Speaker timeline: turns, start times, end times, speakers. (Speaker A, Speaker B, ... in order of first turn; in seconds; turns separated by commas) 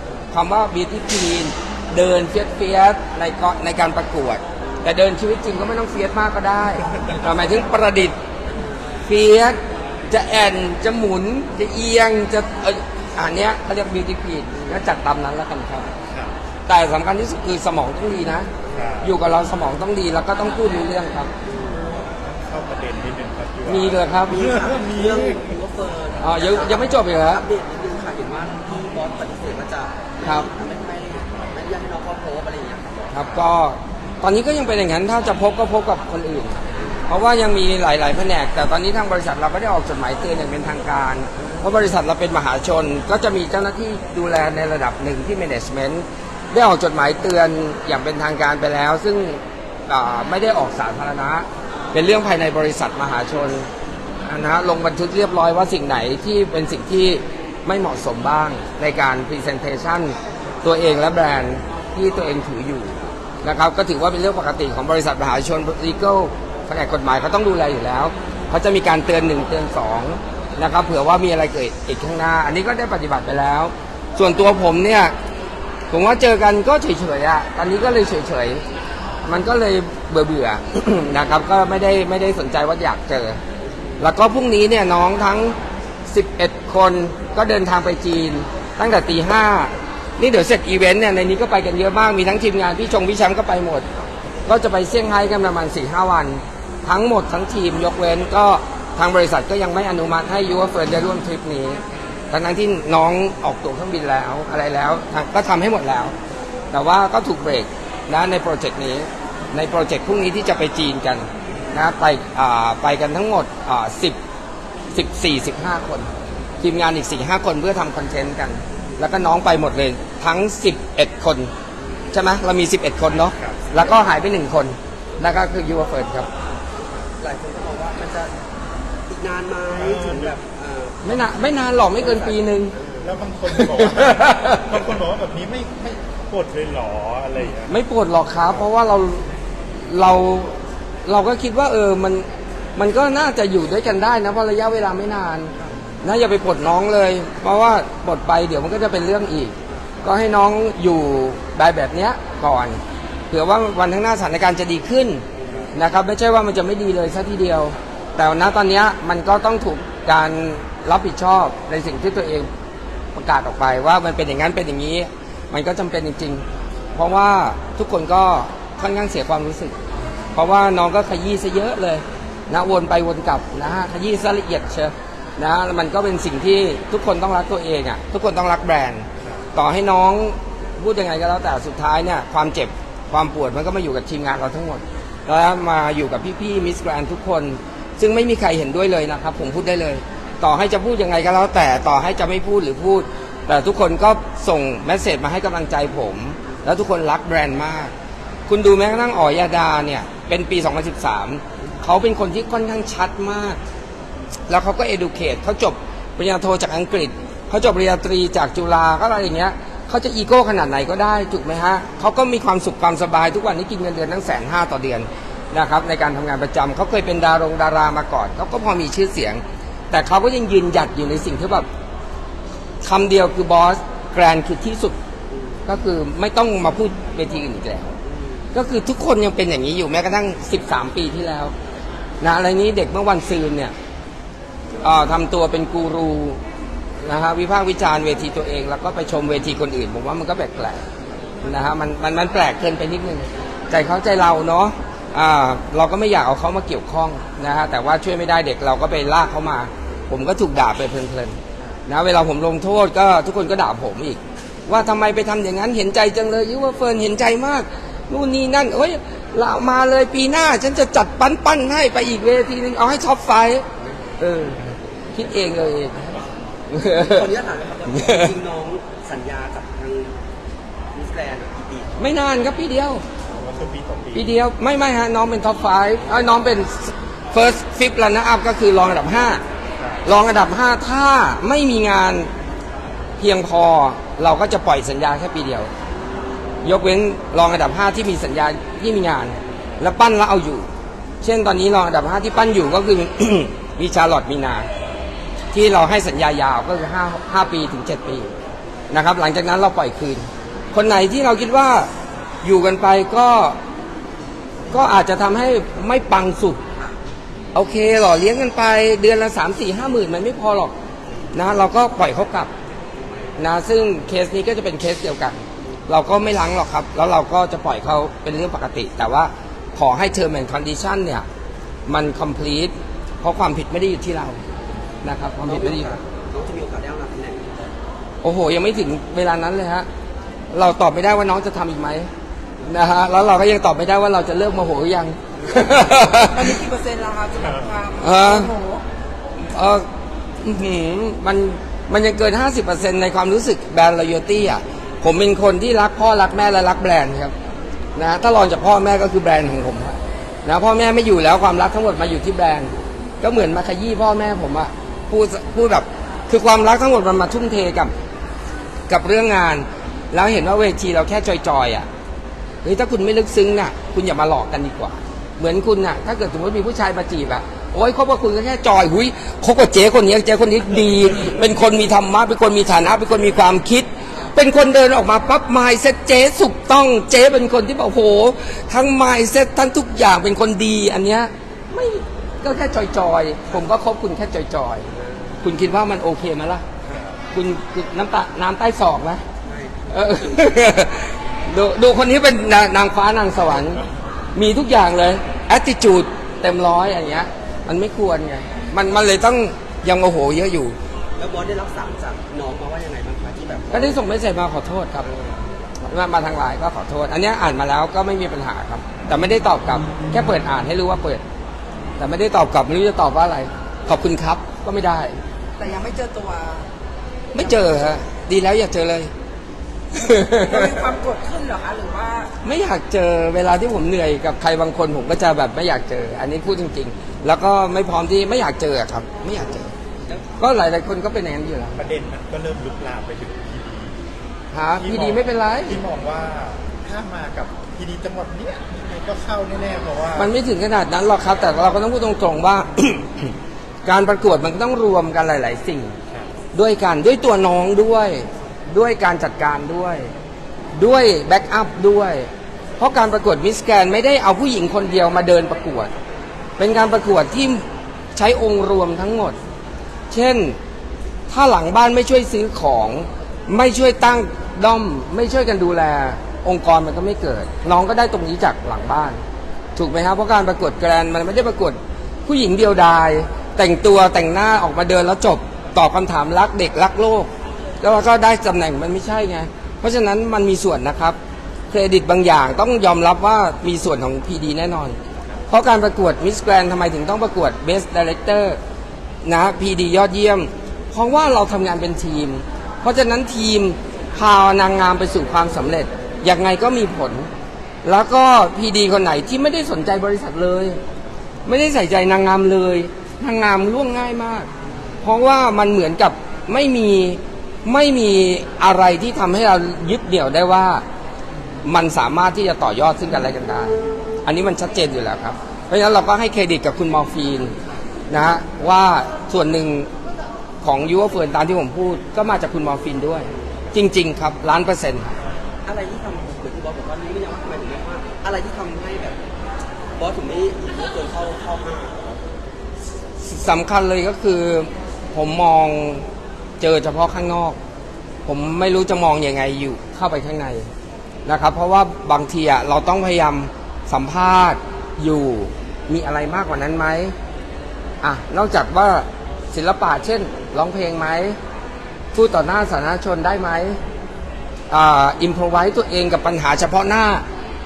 Speaker A: 0.3-8.2, Speaker A: 9.1-15.9, Speaker A: 16.7-18.5, Speaker B: 18.7-19.1, Speaker A: 19.0-21.3, Speaker C: 21.4-21.9, Speaker B: 22.4-25.4, Speaker A: 23.7-24.4, Speaker C: 24.3-33.5, Speaker A: 26.2-27.4, Speaker A: 33.1-53.7, Speaker A: 54.2-75.1, Speaker A: 75.9-78.6, Speaker A: 79.2-83.4, Speaker A: 84.0-85.6, Speaker A: 86.1-93.8, Speaker A: 94.5-106.2, Speaker A: 106.7-114.2, Speaker A: 114.9-116.1, Speaker A: 116.6-121.5, Speaker A: 122.1-126.3, Speaker B: 123.4-123.7, Speaker C: 127.2-128.3, Speaker C: 129.1-132.4, Speaker B: 129.8-130.3, Speaker A: 131.0-132.8, Speaker B: 132.9-137.8, Speaker A: 133.5-134.8, Speaker A: 137.7-139.3, Speaker A: 139.8-145.5, Speaker A: 146.0-152.8, Speaker A: 153.3-162.5, Speaker C: 155.4-155.7, Speaker A: 163.2-169.8, Speaker A: 170.3-197.9, Speaker A: 198.5-203.6, Speaker A: 204.5-221.7, Speaker A: 222.8-225.0, Speaker C: 225.3-225.6, Speaker A: 225.7-227.9, Speaker C: 228.0-228.5, Speaker A: 228.5-231.5, Speaker A: 232.2-233.7, Speaker A: 234.8-236.4, Speaker A: 237.0-240.8, Speaker A: 241.4-263.6, Speaker A: 264.2-264.6, Speaker A: 265.1-266.0, Speaker A: 266.7-267.2, Speaker C: 266.9-270.2, Speaker C: 270.9-272.1, Speaker A: 272.0-273.0, Speaker B: 273.3-274.3, Speaker A: 274.1-279.4, Speaker A: 280.0-282.3, Speaker A: 283.2-285.7, Speaker A: 286.6-290.7, Speaker A: 291.2-294.7, Speaker A: 295.5-298.3, Speaker A: 298.9-301.9, Speaker A: 302.4-303.6, Speaker A: 304.7-306.6, Speaker A: 307.5-310.8, Speaker A: 311.3-312.5, Speaker A: 313.4-321.3, Speaker A: 321.9-324.4, Speaker A: 325.0-325.9, Speaker C: 325.4-327.7, Speaker A: 328.2-329.9, Speaker A: 330.5-332.1, Speaker A: 332.6-336.5, Speaker D: 336.1-338.8, Speaker A: 338.0-338.5, Speaker A: 339.4-339.9, Speaker A: 340.4-347.3, Speaker A: 348.0-357.9, Speaker A: 358.9-361.9, Speaker A: 362.6-384.9, Speaker A: 385.4-386.6, Speaker A: 387.3-389.2, Speaker C: 389.4-390.5, Speaker A: 389.9-393.8, Speaker A: 394.4-400.8, Speaker C: 401.2-404.0, Speaker A: 403.7-405.1, Speaker A: 405.8-411.2, Speaker A: 412.0-415.2, Speaker D: 415.6-416.7, Speaker A: 417.3-419.1, Speaker A: 419.9-420.8, Speaker D: 420.0-422.3, Speaker A: 422.4-429.7, Speaker A: 430.4-431.8, Speaker B: 431.8-434.0, Speaker A: 434.5-435.8, Speaker B: 434.8-440.3, Speaker A: 440.2-443.3, Speaker A: 443.9-446.0, Speaker A: 446.5-450.1, Speaker A: 450.8-455.9, Speaker A: 456.6-459.4, Speaker A: 460.1-460.6, Speaker A: 461.3-469.2, Speaker A: 469.8-477.3, Speaker A: 477.8-481.2, Speaker A: 481.7-485.0, Speaker A: 485.5-488.6, Speaker A: 489.2-497.3, Speaker A: 497.8-500.8, Speaker A: 501.5-504.5, Speaker A: 505.0-510.8, Speaker A: 511.6-517.5, Speaker A: 518.1-519.9, Speaker A: 520.6-525.2, Speaker C: 525.7-529.2, Speaker C: 530.0-532.2, Speaker A: 533.2-536.1, Speaker A: 536.6-537.6, Speaker A: 538.3-540.7, Speaker A: 541.2-547.1, Speaker A: 548.0-551.4, Speaker A: 552.1-553.8, Speaker A: 554.7-557.2